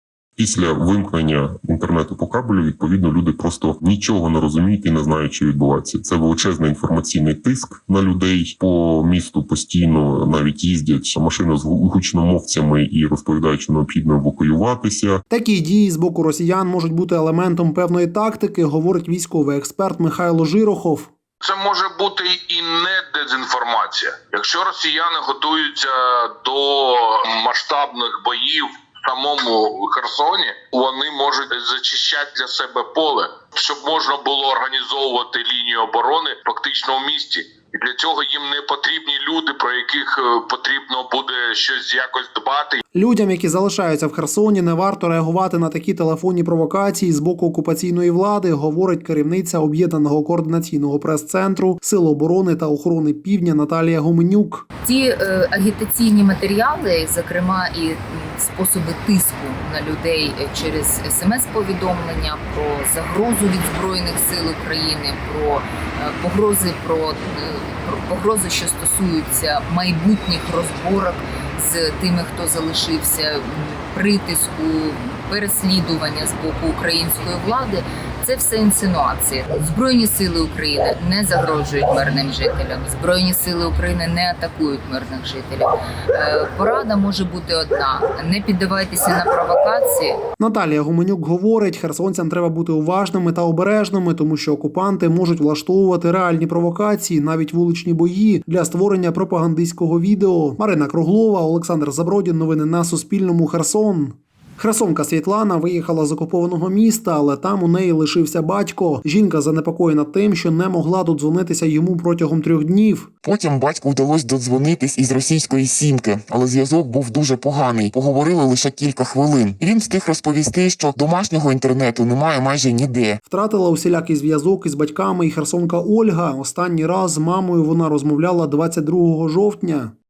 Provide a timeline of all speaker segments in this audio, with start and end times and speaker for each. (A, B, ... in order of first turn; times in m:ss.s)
0:00.4-0:15.2 A
0:15.3-0:21.1 B
0:21.4-0:42.8 C
0:42.9-0:54.7 B
0:54.8-1:30.2 D
1:30.4-1:53.1 B
1:53.2-2:03.2 E
2:03.3-2:09.9 B